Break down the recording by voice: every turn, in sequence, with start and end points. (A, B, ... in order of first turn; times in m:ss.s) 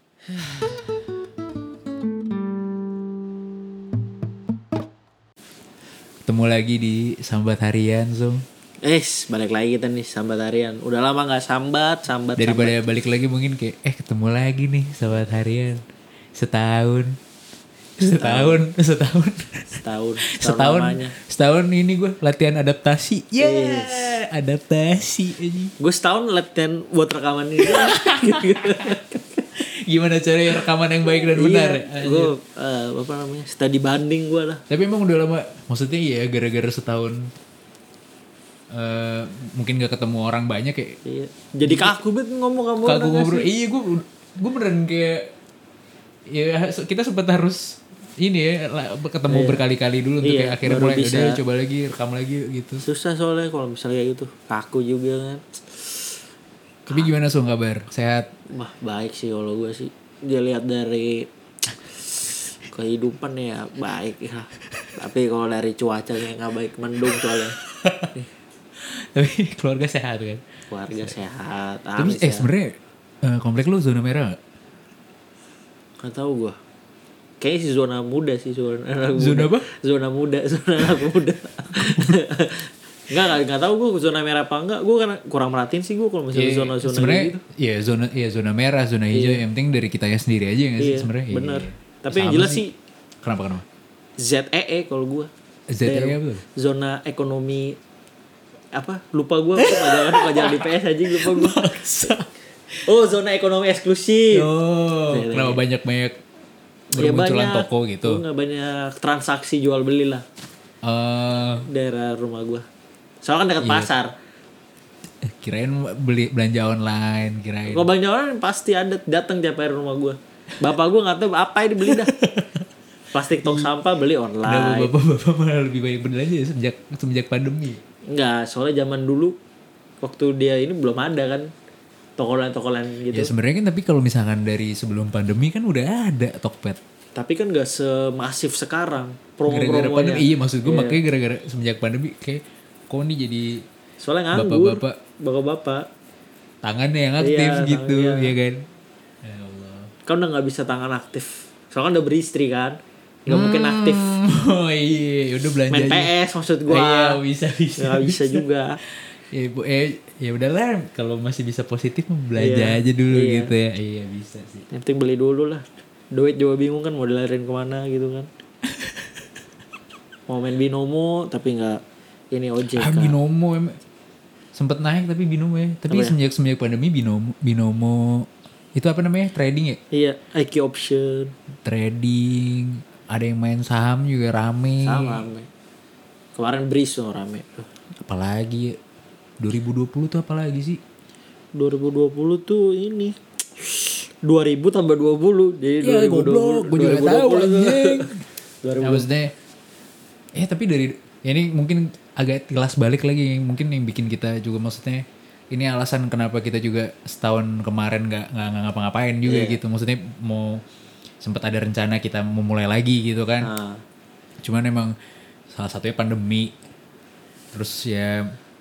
0:00.3-0:00.8 A
0:06.2-0:08.4 B
0:08.8-0:12.8 A
0:12.4-0:15.8 B
0:16.4-0:17.2 B
0:18.0-0:25.7 B
0:18.2-0:18.6 A
0:19.7-0:21.1 A
0:23.4-0:24.2 A
0:25.8-0:29.4 A
0:27.6-0:28.9 B
0:29.6-0:32.3 B
0:31.1-0:34.6 A
0:34.7-0:37.3 B
0:38.7-0:41.0 B
0:41.0-0:43.5 A
0:41.6-0:41.9 B
0:42.8-0:45.3 B
0:46.3-0:52.8 B
0:49.3-0:49.6 A
0:50.2-0:51.4 A
0:52.8-0:56.1 A
0:56.9-0:58.2 B
0:58.5-1:01.3 A
1:02.0-1:07.6 A
1:07.8-1:08.1 B
1:08.8-1:10.4 B
1:10.7-1:12.5 A
1:12.0-1:14.4 B
1:16.0-1:16.6 A
1:17.4-1:27.4 A
1:19.2-1:19.6 B
1:26.3-1:32.6 B
1:29.1-1:29.4 A
1:30.8-1:32.7 A
1:33.2-1:33.6 B
1:34.2-1:35.3 A
1:35.7-1:36.4 B
1:35.8-1:37.8 A
1:38.7-1:41.8 A
1:39.6-1:42.3 B
1:42.9-1:44.5 A
1:44.3-1:46.2 B
1:45.1-1:45.6 A
1:46.9-1:48.2 B
1:46.9-1:50.2 A
1:50.8-1:51.6 B
1:51.6-1:52.6 A
1:53.2-1:54.1 A
1:53.6-1:53.9 B
1:55.2-1:57.9 B
1:57.7-2:02.1 A
2:01.8-2:02.6 B
2:03.1-2:04.9 A
2:03.4-2:03.7 B
2:04.4-2:07.8 B
2:08.1-2:09.3 A
2:10.0-2:11.5 A
2:12.2-2:13.3 A
2:13.1-2:16.8 B
2:17.2-2:21.0 A
2:19.5-2:23.6 B
2:24.0-2:25.8 A
2:24.3-2:25.0 B
2:26.6-2:28.6 B
2:27.2-2:28.3 A
2:29.2-2:29.9 B
2:30.1-2:34.1 A
2:33.3-2:36.1 B
2:35.7-2:37.2 A
2:36.7-2:38.4 B
2:37.8-2:38.8 A
2:39.0-2:44.6 B
2:42.4-2:43.5 A
2:44.7-2:48.3 A
2:48.7-2:49.1 B
2:50.3-2:51.8 A
2:52.3-2:53.2 A
2:52.8-2:53.8 B
2:54.5-2:59.8 B
2:55.9-2:56.1 A
2:59.9-3:01.3 A
3:01.6-3:05.2 B
3:04.8-3:05.5 A
3:06.4-3:07.7 A
3:08.0-3:08.8 B
3:09.4-3:10.8 B
3:11.6-3:18.1 A
3:15.8-3:18.2 B
3:18.6-3:19.0 A
3:18.8-3:19.3 B
3:20.4-3:30.6 B
3:29.2-3:29.6 A
3:31.2-3:33.5 B
3:33.4-3:33.8 A
3:34.4-3:34.9 B
3:35.5-3:36.5 B
3:37.5-3:38.2 B